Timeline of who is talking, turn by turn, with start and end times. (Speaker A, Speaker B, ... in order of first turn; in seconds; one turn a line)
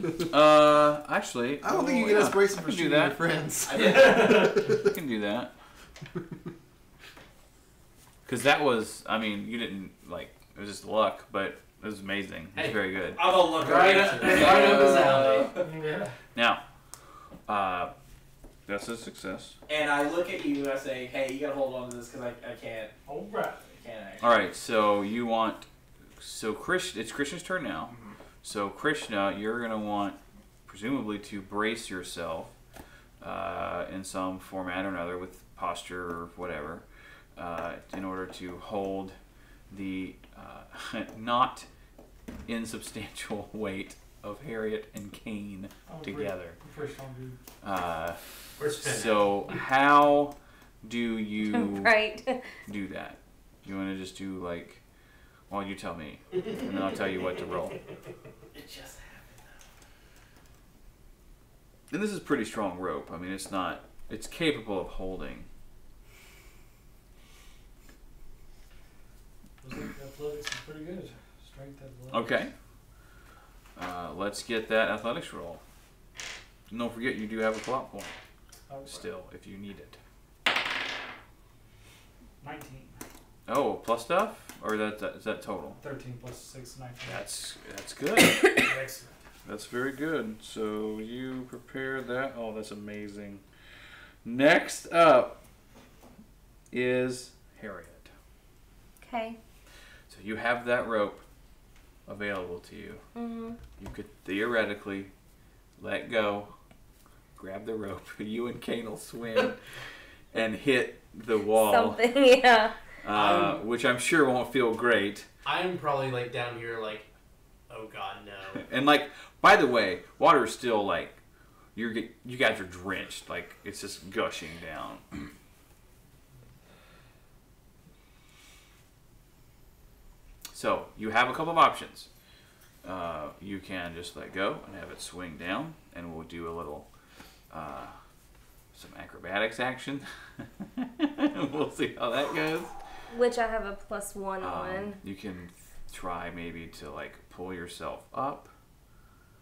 Speaker A: 0.2-3.2
Speaker B: 1.6-4.9
Speaker C: 3.7-4.5
Speaker D: 3.8-4.7
Speaker A: 4.7-5.5
Speaker A: 8.3-13.2
Speaker C: 13.2-15.7
Speaker E: 13.5-15.5
Speaker A: 14.3-14.6
Speaker D: 15.4-16.1
Speaker A: 16.4-16.6
Speaker A: 17.5-17.9
Speaker A: 18.7-19.6
Speaker C: 19.7-22.9
Speaker D: 23.1-23.8
Speaker C: 23.8-24.4
Speaker A: 24.2-25.7
Speaker A: 26.2-32.5
Speaker C: 27.9-28.1
Speaker A: 33.2-36.9
Speaker A: 37.4-39.2
Speaker A: 39.7-41.7
Speaker A: 42.5-46.6
Speaker D: 45.9-47.4
Speaker A: 47.6-51.9
Speaker E: 48.6-49.6
Speaker F: 51.5-52.5
Speaker A: 52.7-54.8
Speaker A: 55.5-57.8
Speaker C: 58.5-59.4
Speaker A: 61.9-65.5
Speaker D: 69.6-72.3
Speaker A: 72.1-72.5
Speaker A: 73.8-75.6
Speaker A: 76.7-78.1
Speaker D: 78.7-79.0
Speaker A: 78.9-80.0
Speaker D: 82.4-83.0
Speaker A: 83.5-85.8
Speaker D: 85.8-87.2
Speaker A: 87.0-88.7
Speaker D: 88.6-89.1
Speaker A: 89.5-93.4
Speaker A: 94.2-95.4
Speaker A: 96.7-98.1
Speaker F: 99.0-99.4
Speaker A: 100.1-101.2
Speaker A: 102.1-103.0
Speaker F: 103.2-103.6
Speaker A: 103.8-105.1
Speaker A: 105.8-106.5
Speaker A: 107.4-109.6
Speaker A: 110.3-112.0
Speaker F: 111.5-112.8
Speaker A: 113.0-115.3
Speaker E: 113.1-113.6
Speaker E: 115.5-117.1
Speaker E: 117.7-118.7
Speaker A: 118.6-121.2
Speaker A: 121.8-125.3
Speaker A: 130.5-132.1
Speaker A: 132.8-136.9
Speaker A: 137.5-137.9
Speaker A: 138.7-142.7
Speaker F: 143.1-145.0
Speaker A: 144.4-148.5